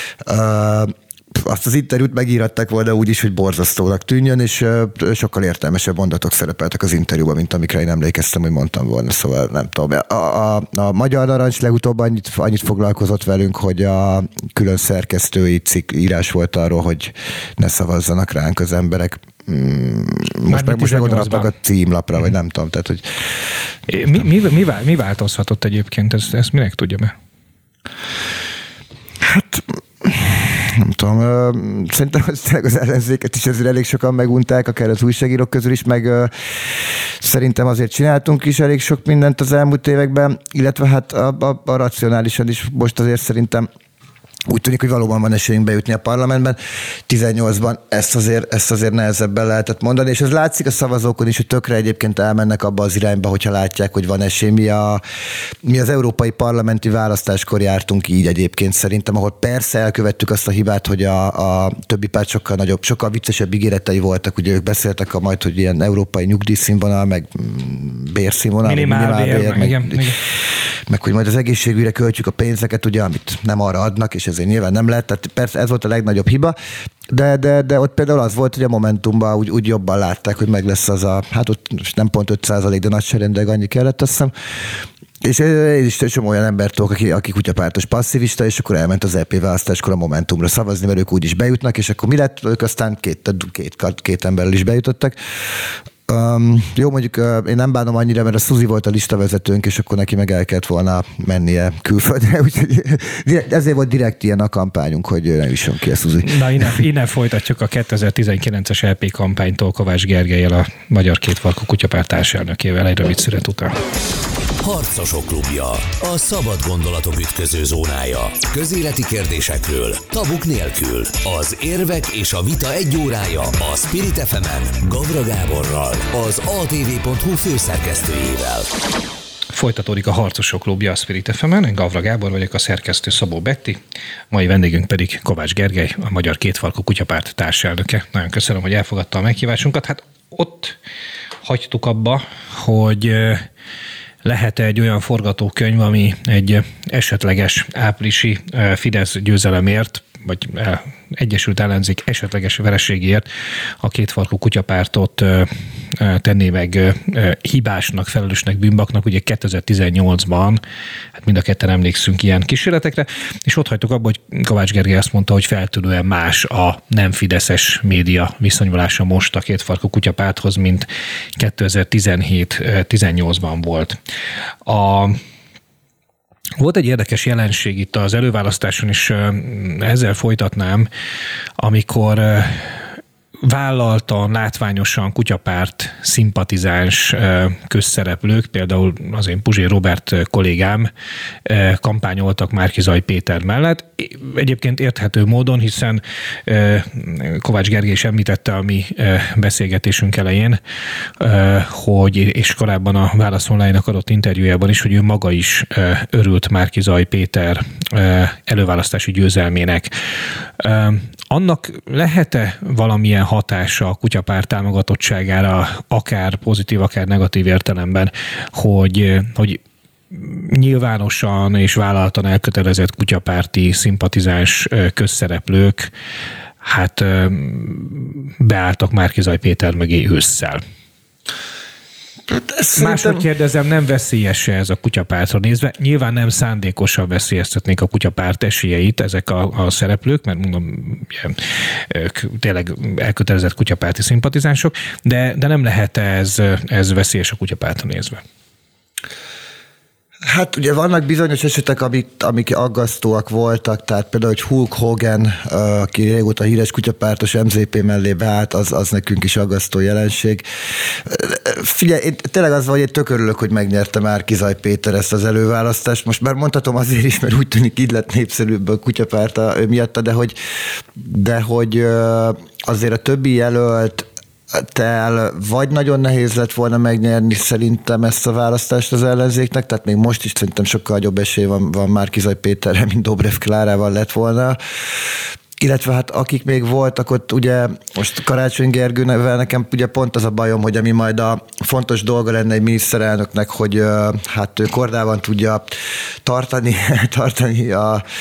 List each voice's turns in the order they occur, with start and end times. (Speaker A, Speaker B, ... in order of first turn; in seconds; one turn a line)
Speaker A: 0.2-23.2
Speaker B: 20.5-21.5
Speaker B: 23.9-27.1
Speaker A: 29.2-43.7
Speaker A: 44.5-55.0
Speaker A: 55.6-70.3
Speaker B: 68.6-70.2
Speaker A: 70.9-76.5
Speaker A: 77.1-106.8
Speaker B: 106.2-113.7
Speaker C: 114.6-128.7
Speaker B: 129.5-133.8
Speaker B: 134.3-140.8
Speaker B: 141.4-143.4
Speaker B: 144.2-160.6
Speaker B: 161.1-174.0
Speaker B: 174.7-175.2
Speaker B: 176.6-180.9
Speaker B: 181.6-182.9
Speaker B: 183.4-190.9
Speaker B: 191.4-200.6
Speaker B: 201.2-209.9
Speaker B: 210.5-225.9
Speaker B: 226.6-230.6
Speaker A: 232.3-233.2
Speaker B: 232.7-248.2
Speaker A: 250.2-298.0